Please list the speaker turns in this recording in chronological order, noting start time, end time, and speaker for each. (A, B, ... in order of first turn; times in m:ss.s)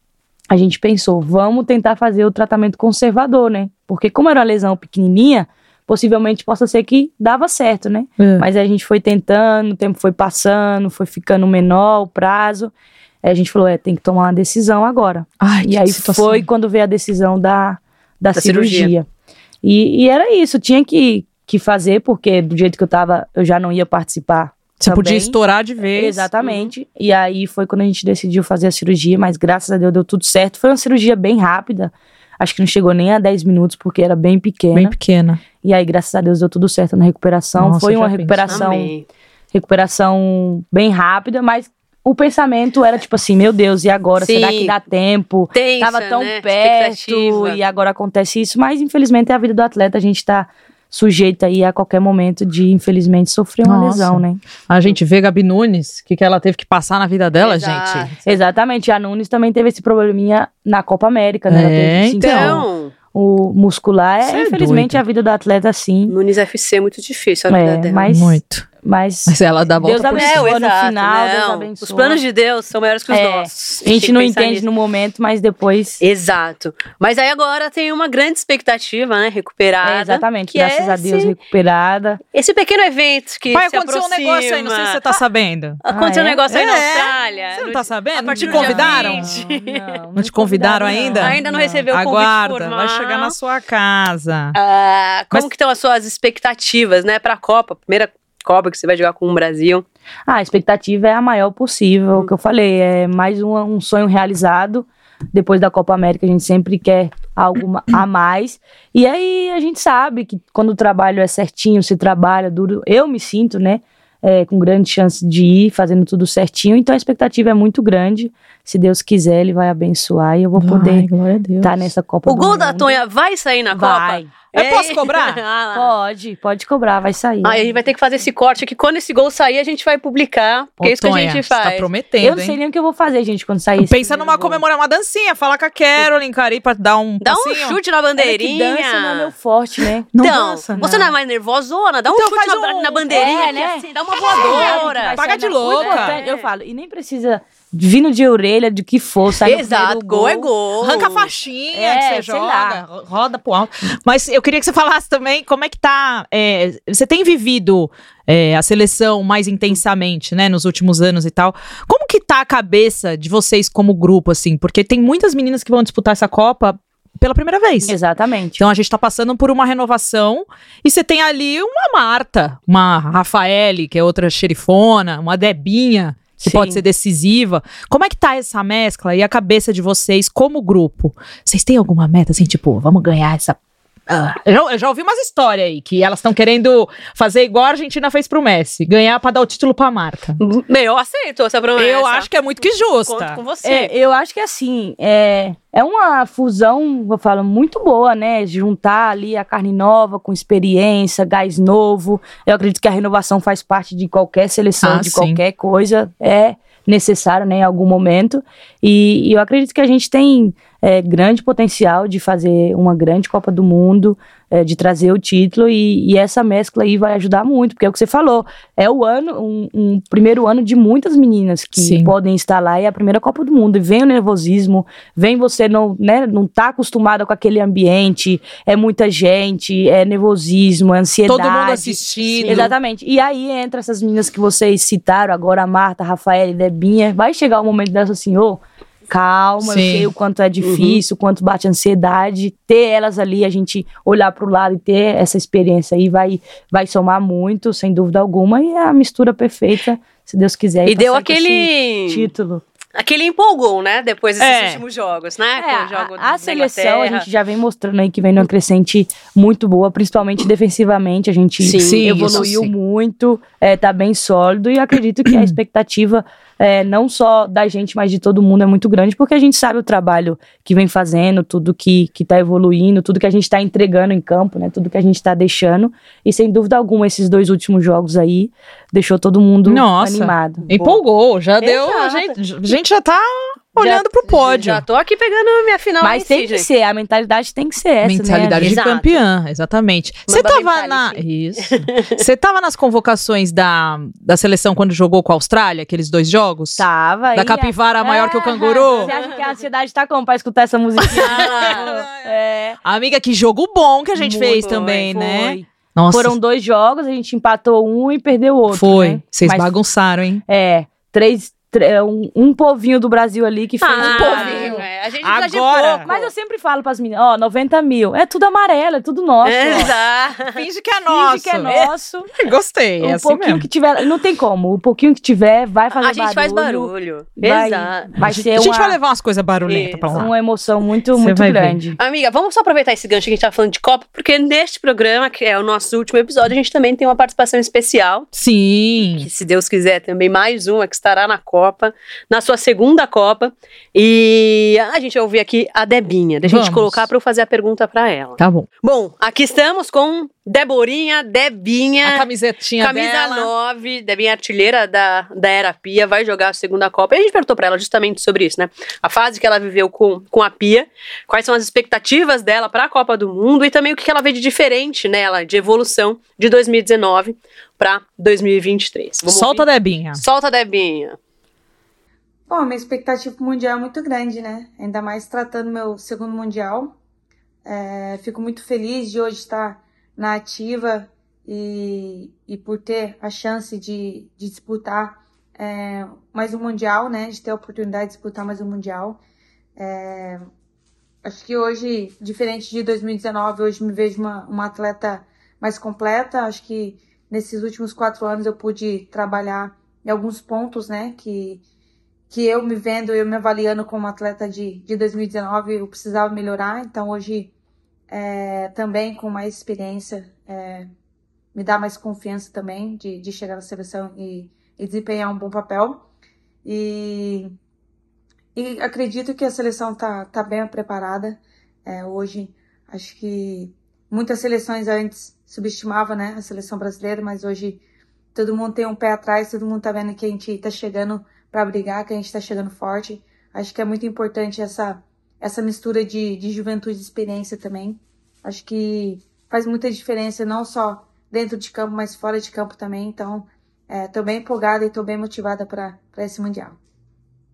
0:00.5-0:12.7 A
0:08.2-0:08.4 B
0:13.2-0:19.0 A
0:15.4-0:16.5 B
0:18.3-0:18.9 C
0:19.6-0:25.4 A
0:24.8-0:26.3 B
0:25.9-0:34.9 A
0:26.4-0:26.7 C
0:34.7-0:35.4 B
0:35.6-0:38.9 A
0:37.6-0:38.7 B
0:38.5-0:39.0 C
0:39.5-0:54.4 A
0:44.2-0:44.7 C
0:45.5-0:47.6 C
0:53.6-0:58.1 B
0:57.4-0:58.4 C
0:58.2-1:06.1 A
1:01.5-1:02.6 B
1:02.2-1:02.9 C
1:04.2-1:05.0 B
1:06.1-1:08.0 C
1:07.5-1:12.2 A
1:08.1-1:08.6 B
1:09.3-1:10.6 B
1:10.0-1:14.7 C
1:13.1-1:16.0 A
1:16.0-1:21.3 C
1:19.8-1:22.2 A
1:22.3-1:25.2 C
1:23.5-1:25.8 B
1:25.8-1:30.0 C
1:25.9-1:26.4 A
1:26.5-1:29.3 B
1:28.3-1:31.9 A
1:30.2-1:34.6 B
1:30.9-1:33.3 C
1:34.5-1:39.8 C
1:40.3-2:01.1 A
2:00.6-2:01.8 B
2:01.6-2:03.0 A
2:02.2-2:05.9 C
2:03.7-2:04.3 A
2:04.5-2:05.4 B
2:05.7-2:07.7 A
2:07.4-2:11.9 C
2:10.8-2:12.6 B
2:12.2-2:14.6 A
2:13.8-2:17.8 B
2:17.2-2:19.3 C
2:18.2-2:20.1 A
2:20.1-2:20.9 B
2:20.2-2:26.4 C
2:20.8-2:21.1 A
2:22.1-2:23.4 B
2:23.1-2:30.5 A
2:24.3-2:26.2 B
2:29.4-2:31.3 C
2:30.8-2:47.9 B
2:31.7-2:32.8 A
2:47.8-2:48.6 A
2:48.6-3:10.4 B
2:56.4-2:56.8 A
3:10.4-3:12.3 C
3:11.8-3:13.4 B
3:13.0-3:13.9 C
3:13.6-4:12.6 A
3:24.8-3:25.4 B
3:41.8-3:42.1 B
3:51.2-3:52.7 B
3:52.3-3:52.7 C
3:59.6-4:00.1 B
4:00.6-4:01.0 C
4:10.8-4:12.3 C
4:12.9-4:17.3 C
4:14.4-4:14.8 B
4:15.6-4:40.7 A
4:21.6-4:22.5 C
4:21.8-4:22.7 B
4:25.3-4:25.5 B
4:39.7-4:44.8 B
4:40.7-4:41.0 C
4:41.6-4:42.4 C
4:43.8-4:46.7 C
4:46.0-4:48.8 A
4:48.0-4:59.1 B
4:48.6-4:49.2 C
4:50.3-4:52.2 C
4:56.8-5:02.8 A
5:01.1-5:02.3 B
5:01.1-5:02.0 C
5:02.8-5:06.4 B
5:04.1-5:09.7 A
5:08.7-5:10.4 B
5:10.5-5:14.8 A
5:13.8-5:16.3 C
5:14.0-5:16.1 B
5:16.0-5:19.9 A
5:19.4-5:20.6 C
5:20.5-5:23.6 B
5:21.1-5:22.3 A
5:23.0-5:29.0 A
5:25.9-5:28.1 C
5:28.2-5:30.3 B
5:29.6-5:30.3 C
5:30.1-5:32.0 A
5:31.1-5:31.8 B
5:32.0-5:38.3 C
5:38.3-5:39.3 B
5:39.1-5:52.2 C
5:46.4-5:47.1 B
5:48.4-5:48.7 B
5:52.0-5:53.5 B
5:52.8-6:11.2 C
6:09.2-6:10.2 B
6:12.5-6:16.9 D
6:17.6-6:29.2 D
6:29.8-6:30.4 D
6:31.2-6:41.6 D
6:42.3-6:47.5 D
6:48.1-6:50.9 D
6:51.5-6:56.0 D
6:56.6-6:57.5 D
6:58.5-7:07.8 D
7:08.3-7:26.8 D